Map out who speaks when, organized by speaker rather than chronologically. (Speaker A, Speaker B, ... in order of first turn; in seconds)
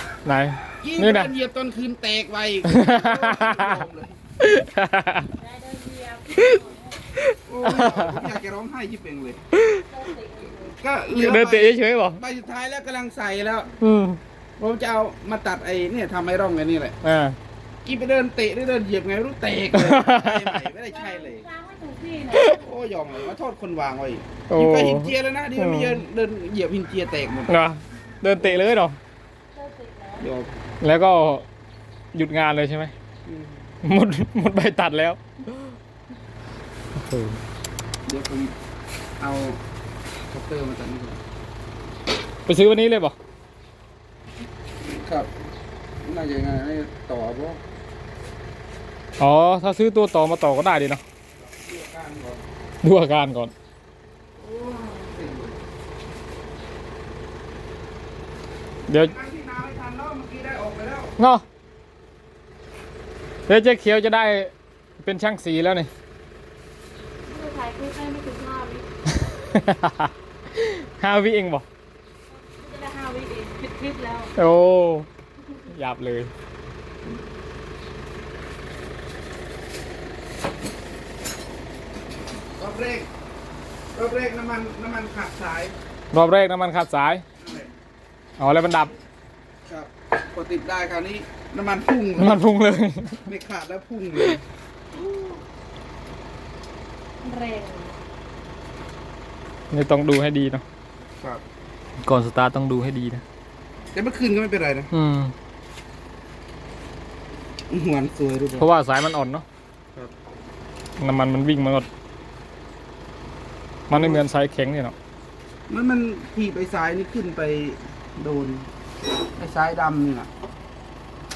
Speaker A: 0.3-1.3, 2.7-3.8, 4.4-5.3, 7.2-8.3, 11.1-12.2, 13.8-14.2, 17.0-17.4, 19.7-20.7, 22.3-22.6, 24.5-26.1, 27.5-29.0, 30.8-31.5, 32.1-32.9, 33.8-35.2, 37.0-37.4, 42.5-43.1, 49.2-51.0, 52.8-53.5, 58.9-59.1, 61.2-61.4, 63.5-65.9, 69.2-71.7, 74.4-75.1, 75.7-76.3, 86.1-87.2, 88.4-88.9, 92.2-93.3, 99.7-100.6, 102.0-103.2, 104.9-105.3, 108.6-109.5, 111.0-111.9, 113.9-115.0
Speaker B: 0.8-4.2, 7.5-9.5, 10.7-13.8, 14.6-17.0, 17.9-21.5, 22.5-27.6, 30.2-30.6, 33.3-33.6, 38.1-38.5, 39.2-39.6, 40.3-41.2, 44.8-45.3, 46.0-47.6, 51.4-52.4, 54.4-55.6, 58.9-61.1, 82.6-83.1, 84.0-85.8, 87.4-87.7, 89.7-92.4, 93.3-94.4, 94.9-95.4, 103.9-104.9, 107.7-108.7, 113.9-114.2, 115.7-118.7, 119.4-120.3
Speaker C: 5.3-7.1, 9.8-10.8, 20.9-22.6, 29.5-30.3, 67.2-68.9, 72.3-74.3, 97.2-98.0